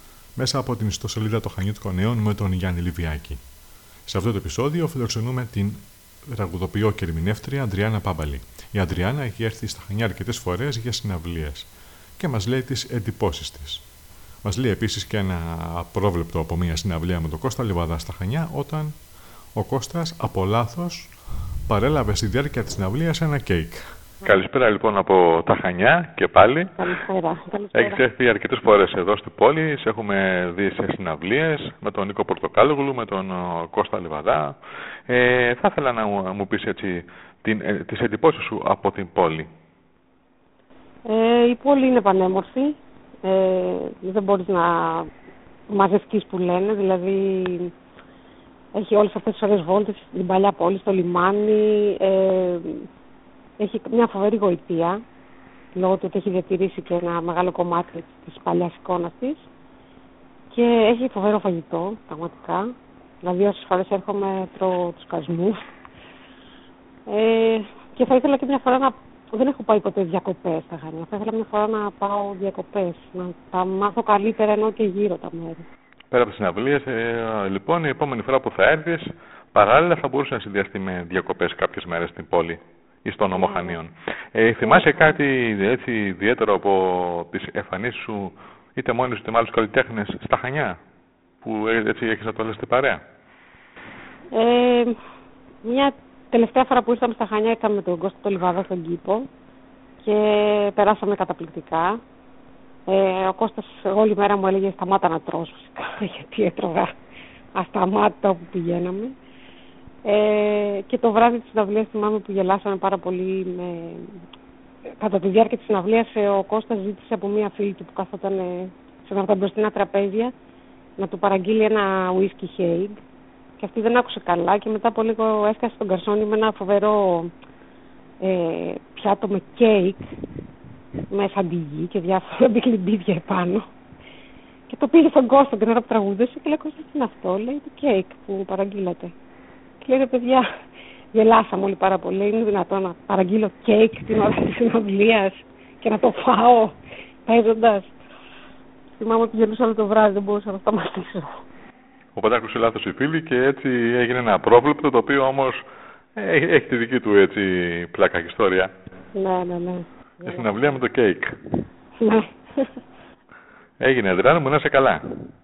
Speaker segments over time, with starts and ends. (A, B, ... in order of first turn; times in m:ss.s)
0:00.4-0:03.4 A
0:04.1-0:13.8 A
0:14.4-0:19.0 A
0:19.6-0:21.1 A
0:21.7-0:23.9 A
0:24.2-0:26.8 B
0:26.8-0:28.0 C
0:27.7-0:34.6 B
0:35.1-0:39.5 B
0:41.1-0:45.1 C
0:45.7-0:47.7 C
0:48.8-0:52.9 C
0:53.6-0:55.0 C
0:55.8-0:59.5 C
1:00.5-1:02.6 C
1:03.2-1:05.6 C
1:07.1-1:15.6 C
1:16.1-1:30.8 B
1:23.3-1:23.8 C
1:24.6-1:25.2 C
1:31.4-1:33.0 B
1:34.3-1:35.0 C
1:35.6-1:39.3 C
1:40.0-1:42.0 C
1:42.9-1:46.9 C
1:47.6-1:49.1 C
1:50.1-1:54.2 C
1:55.0-2:00.3 C
2:01.0-2:03.0 C
2:03.6-2:07.3 C
2:08.2-2:10.1 C
2:11.1-2:13.6 C
2:14.7-2:19.1 C
2:19.8-2:20.4 C
2:21.1-2:28.0 C
2:29.0-2:31.3 C
2:32.2-2:35.6 B
2:36.2-2:38.7 B
2:39.2-2:40.8 C
2:40.2-2:41.6 B
2:42.0-2:42.7 C
2:43.8-2:45.2 B